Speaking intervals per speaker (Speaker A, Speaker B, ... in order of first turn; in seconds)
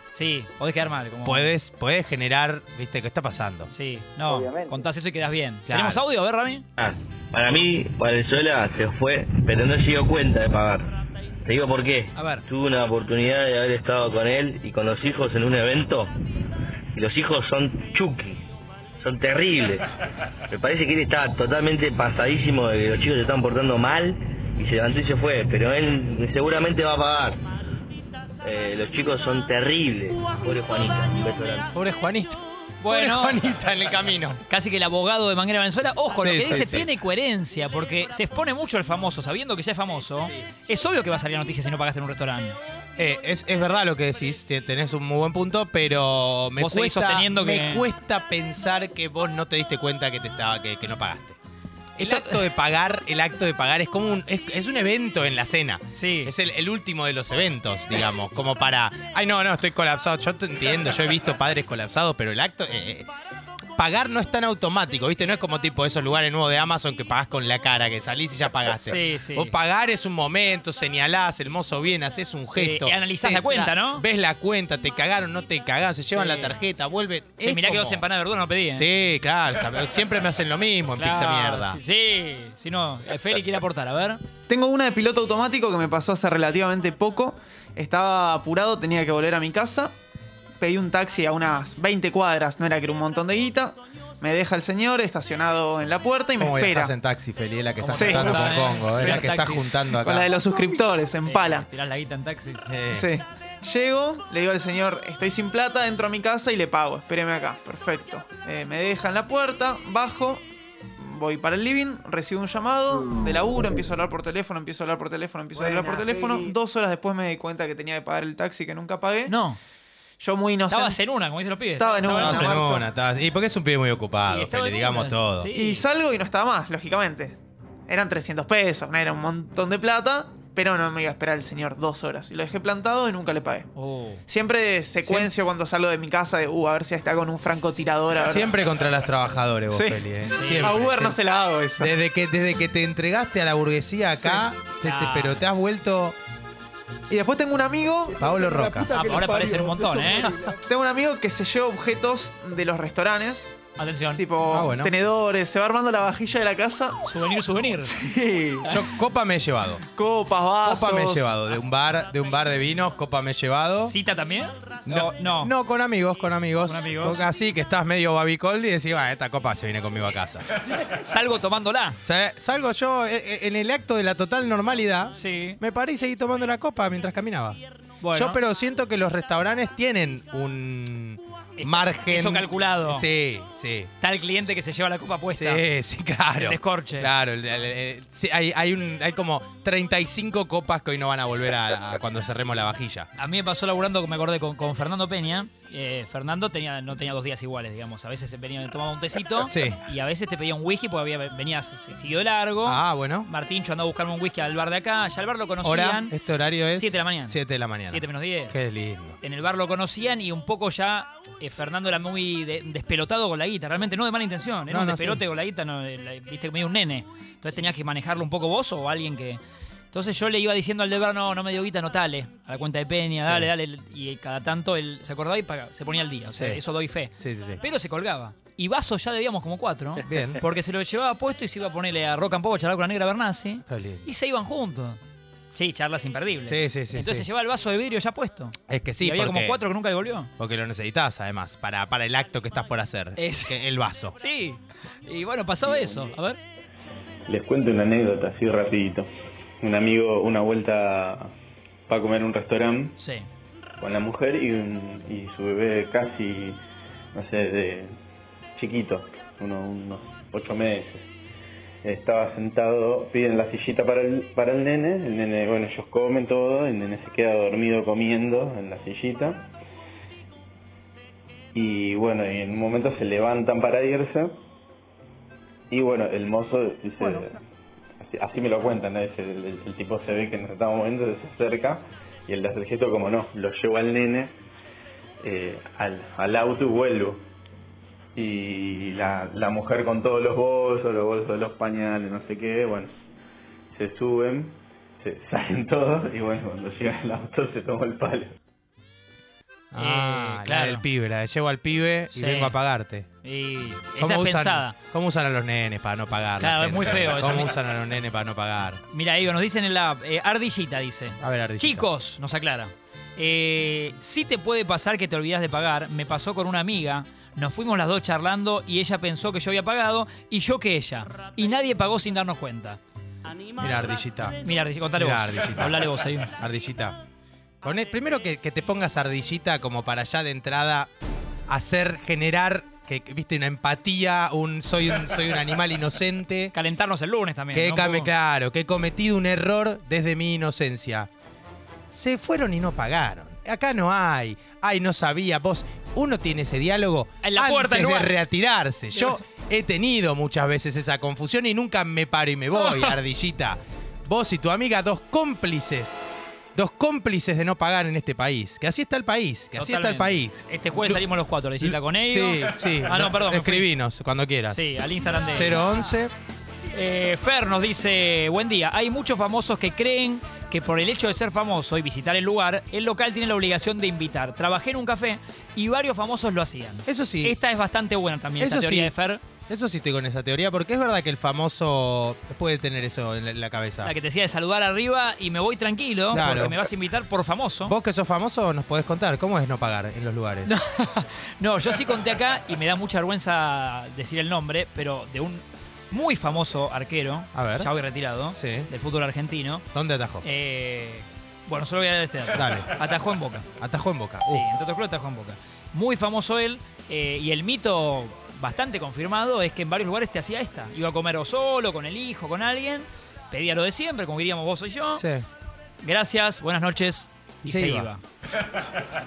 Speaker A: 0.1-1.5, 3.7-6.7, 12.2-12.4, 32.8-33.4, 34.5-42.6, 46.6-47.9, 52.0-52.4, 55.9-56.3, 68.7-69.5, 72.5-74.0, 76.1-76.5, 77.4-78.9, 80.9-84.2, 97.8-99.7, 101.2-102.7, 119.3-119.6, 120.7-122.6, 124.3-125.8, 133.7-134.2, 140.3-140.8, 144.8-145.4, 148.9-150.3, 153.8-154.2, 157.0-158.0, 163.8-165.5, 166.7-167.2, 170.7-172.0, 175.1-175.6, 178.0-178.4, 181.6-183.1, 184.0-185.6, 186.4-187.1, 193.2-206.2, 206.7-208.6, 209.2-219.4, 219.9-235.0, 235.5-240.3, 243.2-243.6, 244.2-246.4, 253.0-253.3, 299.8-300.8, 302.1-302.6, 303.2-304.8, 306.4-307.5, 308.9-322.8, 324.4-326.3, 336.5-338.1, 347.2-348.2, 352.5-353.0, 359.5-363.7, 364.5-365.6, 366.7-379.2, 383.8-387.7, 390.4-399.6, 400.2-403.4, 404.2-415.0, 415.8-418.0
Speaker B: 1.2-3.7, 5.7-6.0, 31.7-34.4, 36.1-36.9, 43.0-51.4, 52.0-63.1, 63.8-78.0, 78.7-81.8, 96.4-100.3, 102.7-103.1, 122.1-125.5, 135.0-135.3, 138.2-141.2, 141.8-146.2, 148.2-149.0, 154.5-154.9, 158.7-159.8, 160.6-163.9, 164.8-170.5, 172.0-177.6, 178.1-183.9, 185.3-193.1, 199.4-199.8, 202.6-203.3, 205.6-209.2, 214.7-215.2, 223.2-223.5, 226.3-226.6, 227.2-227.6, 230.1-230.4, 233.6-234.1, 236.4-237.3, 238.7-239.6, 240.4-244.2, 299.7-303.1, 304.0-308.8, 311.2-311.9, 323.6-324.4, 325.0-327.0, 327.6-330.9, 331.5-336.5, 337.5-341.1, 341.9-356.0, 356.5-361.0, 361.6-364.7, 365.2-366.1, 376.9-377.4, 378.4-378.9, 379.5-383.9, 386.1-386.6, 387.6-390.5, 397.3-397.7, 398.3-398.7, 399.7-400.2, 402.3-402.7, 403.6-404.4, 414.9-415.2, 417.4-417.9
Speaker C: 6.8-16.1, 16.9-18.4, 19.0-19.9, 20.5-27.4, 28.4-31.7
Speaker D: 84.5-89.9, 90.6-96.9, 97.9-99.3, 99.9-101.7, 102.9-110.4, 111.0-119.3, 120.2-121.0, 121.8-122.9, 125.5-133.7, 134.3-138.6, 139.7-140.1, 140.6-141.9, 147.1-153.5, 154.2-157.0, 157.8-158.9, 159.9-161.3
Speaker E: 247.3-249.1, 249.6-251.3, 251.9-253.0, 253.8-256.6, 257.1-257.9, 258.6-261.1, 261.8-269.4, 271.5-274.4, 275.7-277.4, 278.0-284.4, 285.2-287.2, 288.1-292.9, 293.7-298.4